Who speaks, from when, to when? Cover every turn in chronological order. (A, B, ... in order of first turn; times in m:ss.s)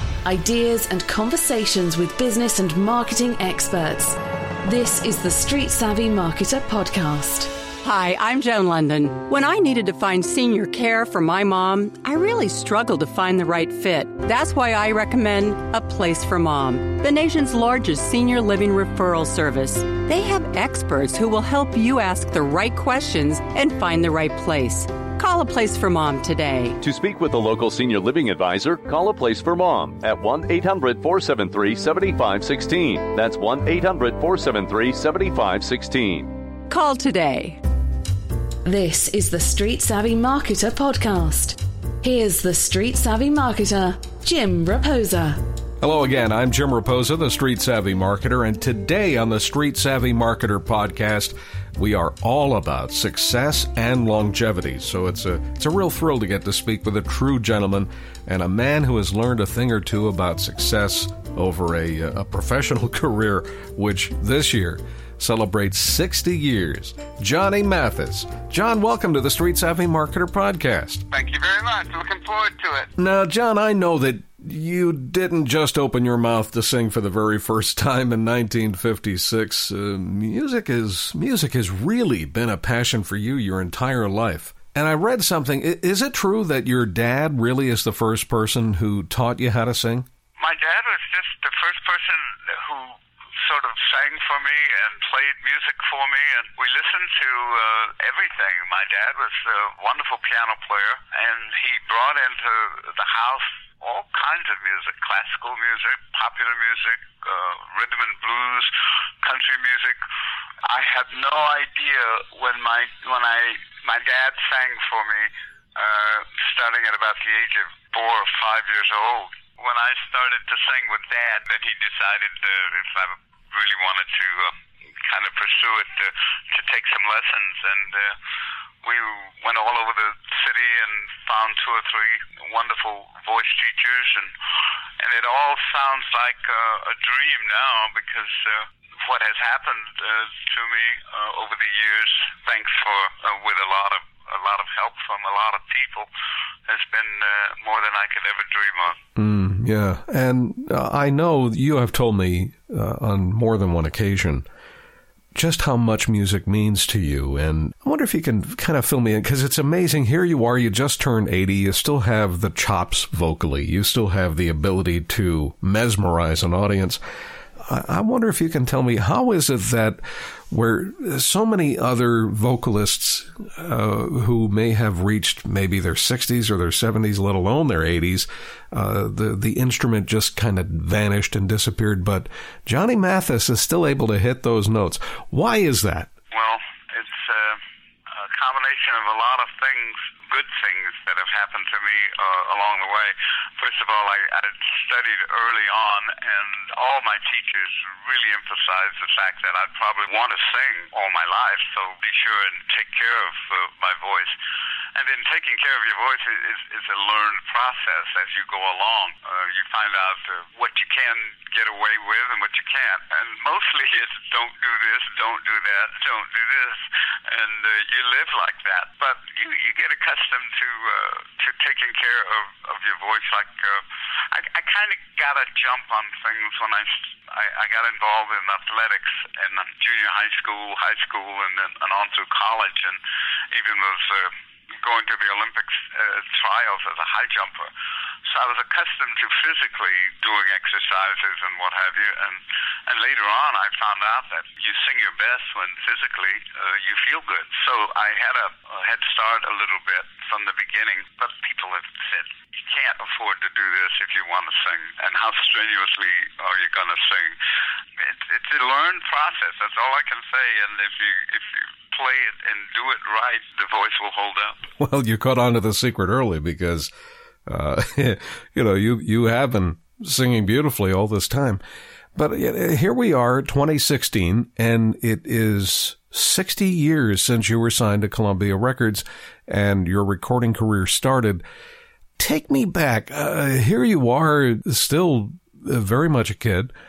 0:00.2-0:07.5 A
0:07.8-0:26.8 B
0:26.8-0:36.3 C
0:36.7-0:37.6 B
0:38.6-0:45.4 A
0:45.8-1:11.1 D
1:11.1-1:12.9 E
1:13.0-1:30.1 D
1:30.4-1:48.7 E
1:49.2-1:50.0 E
1:50.6-2:08.2 E
2:08.8-2:14.3 E
2:15.0-2:26.1 E
2:26.7-2:29.0 E
2:29.2-2:34.5 D
2:35.4-2:47.0 D
2:47.7-3:06.1 D
3:06.3-3:24.4 E
3:25.0-3:53.0 E
3:53.5-3:57.7 E
3:58.3-4:17.4 E
4:18.0-4:24.6 E
4:24.8-4:26.9 D
4:27.5-4:31.6 D
4:32.2-4:41.4 D
4:42.2-4:46.7 D